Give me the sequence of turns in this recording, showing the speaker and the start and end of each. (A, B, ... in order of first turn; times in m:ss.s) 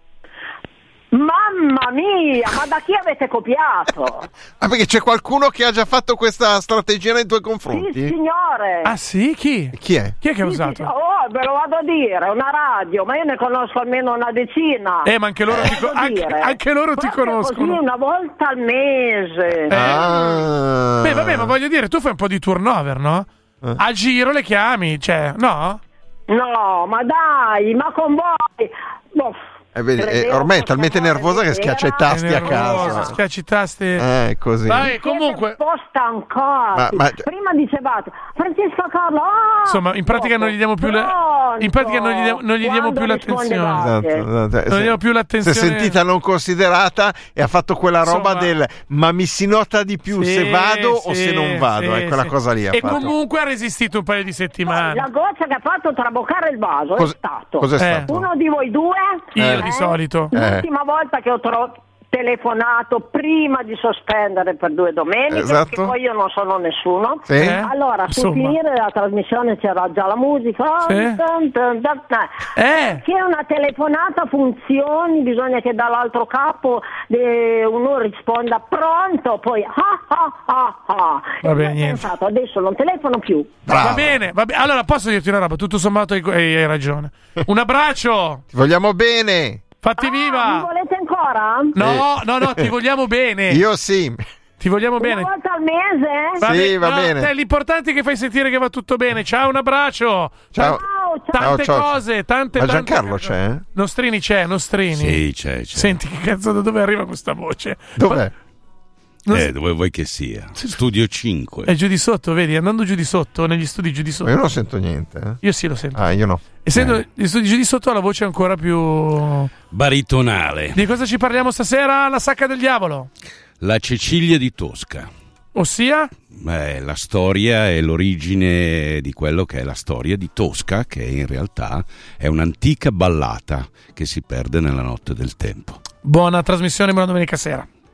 0:01.1-0:04.3 A
0:04.6-0:08.1 B
0:07.7-0:08.9 A
0:08.8-0:10.9 C
0:09.7-0:10.2 B
0:10.4-0:19.9 A
0:15.0-0:17.8 C
0:19.7-0:20.4 C
0:19.7-0:21.5 B
0:21.0-0:25.8 C
0:26.3-0:29.4 A
0:29.8-0:33.2 B
0:30.0-0:33.1 A
0:32.1-0:34.1 C
0:34.0-0:34.9 B
0:34.6-0:35.6 C
0:34.8-0:44.3 A
0:36.8-0:37.3 B
0:39.7-0:43.9 C
0:43.8-0:53.1 B
0:44.7-0:46.0 C
0:48.0-0:48.5 C
0:50.1-0:55.1 C
0:54.7-1:23.6 A
0:57.0-0:58.3 B
0:57.8-0:58.1 C
0:59.4-1:00.3 C
0:59.4-0:59.7 B
1:00.3-1:00.7 B
1:05.3-1:05.9 B
1:07.3-1:07.6 B
1:07.3-1:08.6 C
1:10.8-1:11.2 C
1:12.6-1:13.0 C
1:21.4-1:22.1 C
1:23.7-1:28.4 C
1:23.7-1:24.2 B
1:28.5-1:29.6 B
1:29.8-1:30.7 C
1:30.0-1:31.8 A
1:31.8-1:33.6 C
1:31.8-1:32.7 B
1:33.5-1:34.2 B
1:34.6-1:35.3 C
1:35.0-1:36.4 A
1:36.4-1:40.6 C
1:36.4-1:37.3 B
1:40.5-1:40.8 B
1:40.6-1:41.6 A
1:41.3-1:45.2 C
1:41.4-1:43.6 B
1:44.9-1:46.0 D
1:45.7-1:48.2 C
1:48.0-1:48.3 B
1:49.3-1:49.5 C
1:49.3-1:51.7 D
1:50.6-1:50.8 C
1:51.6-1:54.4 C
1:54.2-1:56.9 B
1:55.4-1:56.0 C
1:56.6-1:59.5 C
1:56.7-1:57.0 D
1:59.7-2:00.9 D
2:00.7-2:03.1 C
2:03.6-2:05.1 D
2:05.6-2:06.1 C
2:06.3-2:15.8 D
2:16.0-2:17.7 C